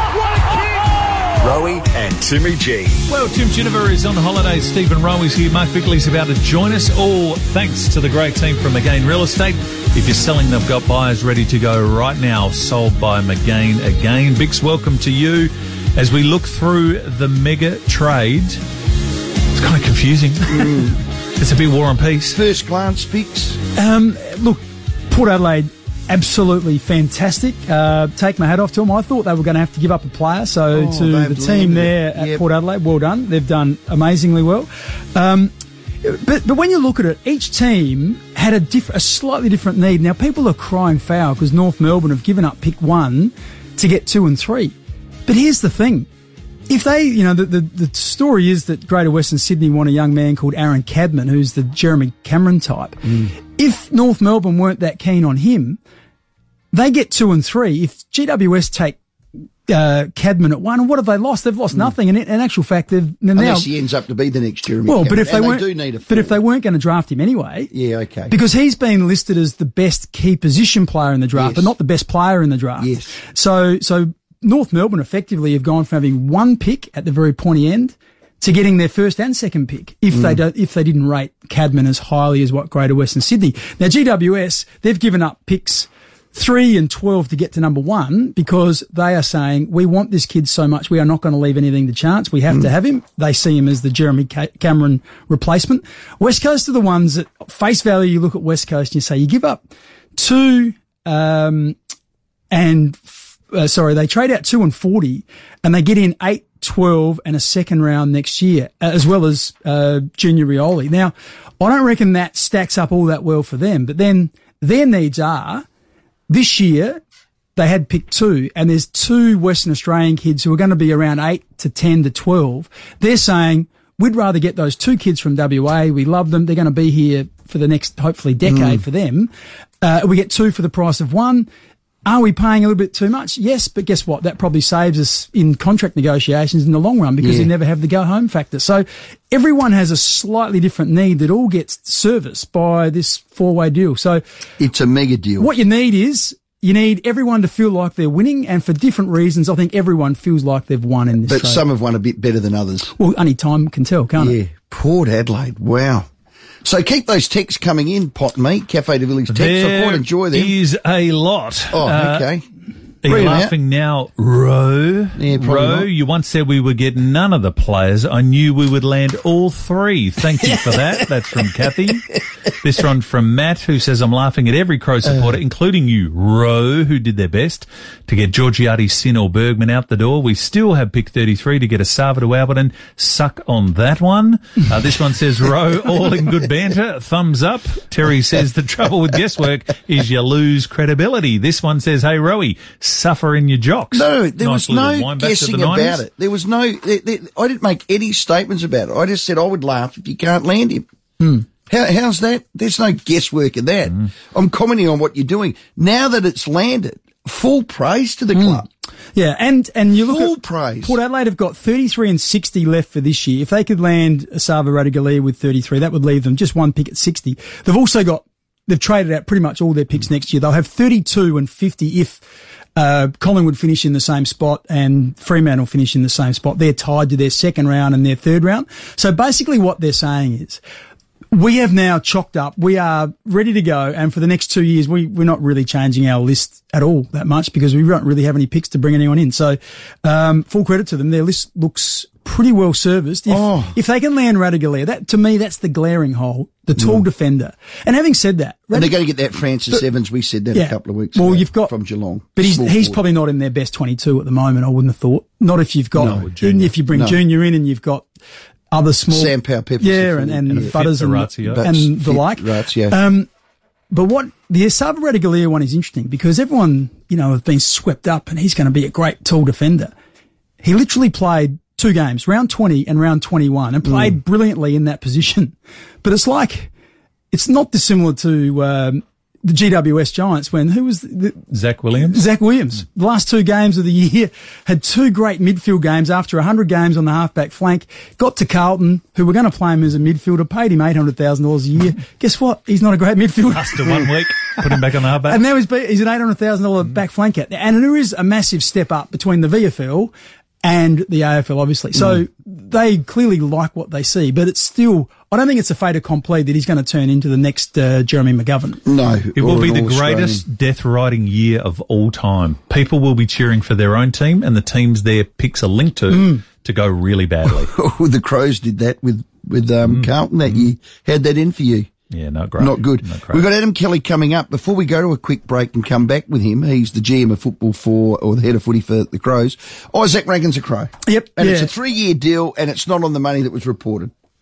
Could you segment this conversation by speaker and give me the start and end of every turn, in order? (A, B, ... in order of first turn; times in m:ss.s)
0:00.5-0:00.8 A
0:01.4-0:03.0 A
0:03.1-0:18.6 B
0:19.5-0:22.4 B
0:20.5-0:21.0 C
0:22.4-0:23.6 C
0:23.8-0:44.7 D
0:30.7-0:32.4 C
0:45.3-0:46.1 D
0:46.7-0:55.8 D
0:56.7-0:59.0 D
0:59.7-1:03.7 D
1:03.4-1:06.4 C
1:04.9-1:07.7 D
1:07.7-1:08.3 C
1:08.3-1:41.8 D
1:11.4-1:11.7 C
1:12.8-1:13.2 C
1:42.5-1:55.7 D
1:56.3-1:57.0 D
1:57.6-2:09.3 D
2:08.4-2:08.8 C
2:09.8-2:11.5 D
2:12.0-2:24.2 D
2:17.2-2:17.5 C
2:24.6-2:25.5 C
2:25.4-2:31.6 D
2:31.2-2:32.9 C
2:32.9-2:34.4 D
2:34.2-2:36.1 C
2:36.6-2:40.5 C
2:39.3-2:42.3 B
2:41.7-2:42.4 C
2:43.0-3:16.0 B
2:43.1-2:43.5 C
2:45.2-2:45.9 C
2:50.5-2:50.9 C
3:13.9-3:20.8 C
3:21.2-3:21.5 D
3:21.7-3:28.7 C
3:28.4-3:42.2 D
3:29.9-3:31.0 C
3:42.8-3:50.6 D
3:51.3-4:09.0 D
4:03.3-4:03.8 C
4:06.8-4:07.0 C
4:08.7-4:13.0 C
4:10.5-4:11.7 D
4:12.4-4:18.1 D
4:16.0-4:16.3 C
4:16.0-4:16.8 B
4:16.9-4:17.2 C
4:18.7-4:23.3 D
4:19.1-4:20.8 C
4:20.5-4:21.7 B
4:21.4-4:23.0 C
4:23.9-4:29.9 D
4:30.6-4:36.7 D
4:37.3-4:41.4 D
4:41.5-4:42.2 B
4:42.0-4:54.1 D
4:53.5-4:55.4 B
4:55.2-5:08.8 D
5:01.9-5:02.2 C
5:08.9-5:10.4 C
5:09.4-5:17.7 B
5:16.1-5:16.4 D
5:17.6-5:21.9 C
5:19.8-5:20.7 B
5:22.1-5:23.5 B
5:22.6-5:34.1 C
5:31.0-5:31.7 D